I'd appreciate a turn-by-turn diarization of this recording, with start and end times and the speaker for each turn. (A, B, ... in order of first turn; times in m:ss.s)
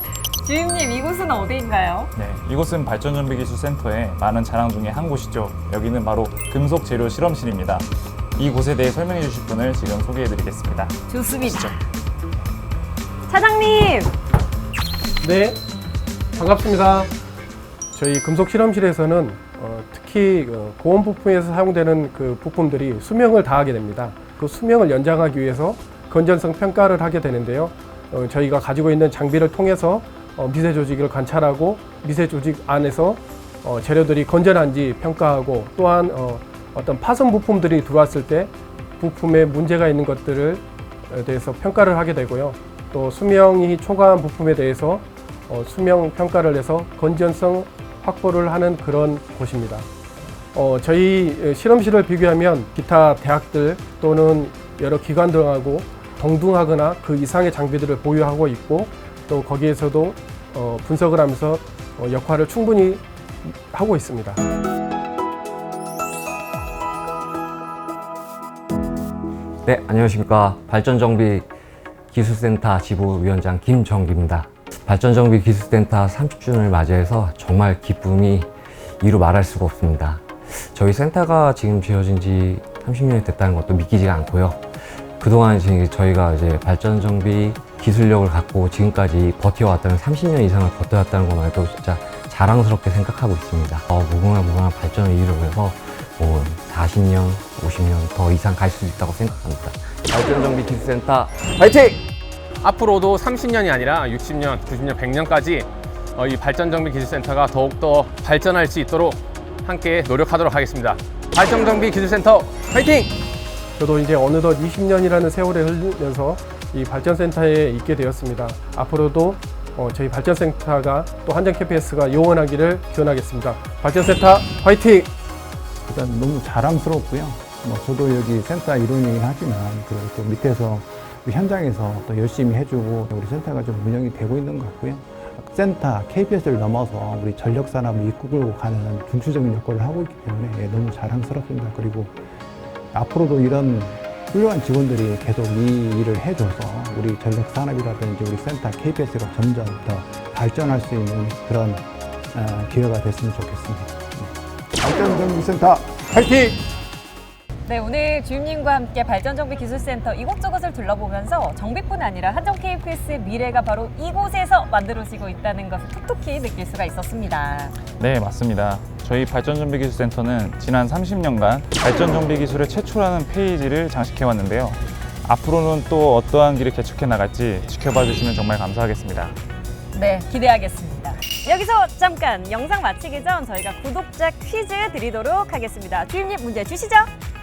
0:00.4-0:02.1 A
0:02.2-0:11.8 B
0:11.1-0:11.8 A
0:13.3-0:14.1 A
0:15.2-0:15.6 C
0:16.3-0:17.1 C
0:17.9-0:49.8 C
0:50.5-1:04.4 C
1:09.6-1:11.5 D
1:12.1-1:42.0 D
1:42.6-1:53.1 E
1:53.8-2:05.1 C
2:05.9-2:22.2 F
2:22.9-2:36.6 F
2:37.7-2:47.8 A
2:48.0-2:59.4 B
2:59.9-3:07.1 A